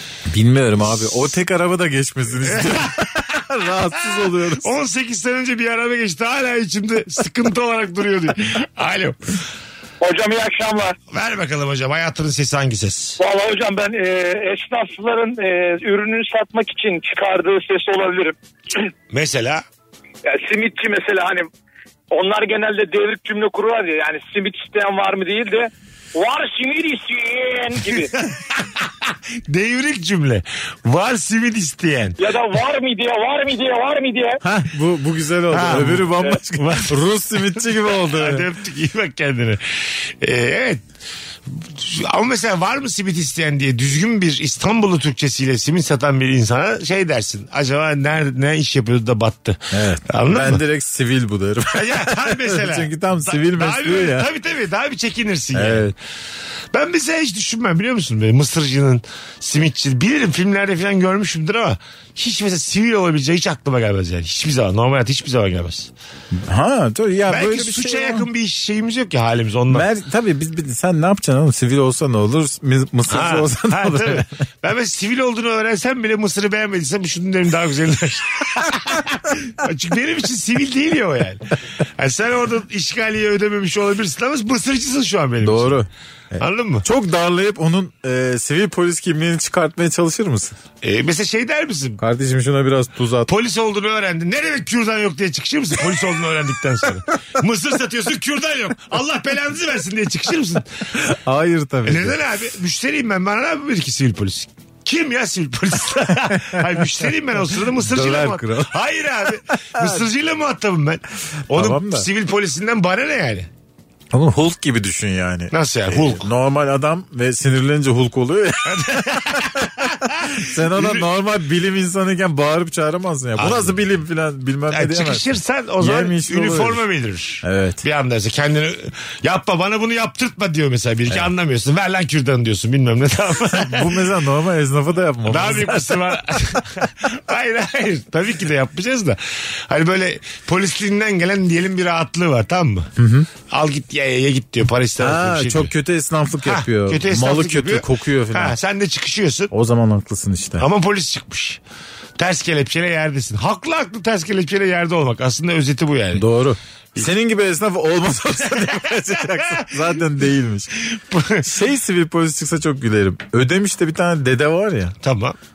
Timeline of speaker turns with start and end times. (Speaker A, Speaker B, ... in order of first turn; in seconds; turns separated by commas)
Speaker A: 0.3-4.7, Speaker B: 2.4-3.0, Speaker B: 4.5-9.3, Speaker C: 10.0-10.9, Speaker B: 11.1-13.2, Speaker C: 13.2-18.4, Speaker B: 19.1-19.6, Speaker C: 20.2-21.5, Speaker C: 22.1-28.1, Speaker B: 28.1-32.2, Speaker C: 32.2-34.4, Speaker A: 34.4-38.5, Speaker B: 35.5-40.8, Speaker B: 41.5-50.6, Speaker A: 49.7-54.3, Speaker B: 51.7-56.0, Speaker A: 55.5-55.9, Speaker B: 56.7-65.9, Speaker A: 66.3-68.3, Speaker B: 67.3-69.9, Speaker A: 69.7-74.3, Speaker B: 73.1-81.4, Speaker B: 82.0-85.8, Speaker A: 85.4-90.5, Speaker B: 86.4-86.9, Speaker B: 90.8-92.0, Speaker A: 92.0-93.3, Speaker B: 93.3-100.7, Speaker A: 101.0-102.2, Speaker B: 101.8-113.5, Speaker A: 106.2-107.0, Speaker A: 107.5-108.7, Speaker A: 109.8-110.0, Speaker A: 111.5-112.1, Speaker A: 114.1-125.3, Speaker B: 115.5-116.3, Speaker B: 118.7-121.1, Speaker B: 123.4-123.8, Speaker B: 124.7-134.0, Speaker A: 125.8-126.8, Speaker A: 127.4-127.8, Speaker A: 133.5-136.4, Speaker B: 135.3-142.9, Speaker A: 143.0-143.3, Speaker B: 143.5-145.7, Speaker A: 145.0-148.6, Speaker B: 146.4-149.5, Speaker A: 149.5-150.7, Speaker B: 150.6-151.6, Speaker B: 152.2-156.2, Speaker A: 156.2-160.7, Speaker B: 158.5-159.9, Speaker B: 160.9-161.5, Speaker A: 161.4-164.9, Speaker B: 165.0-165.4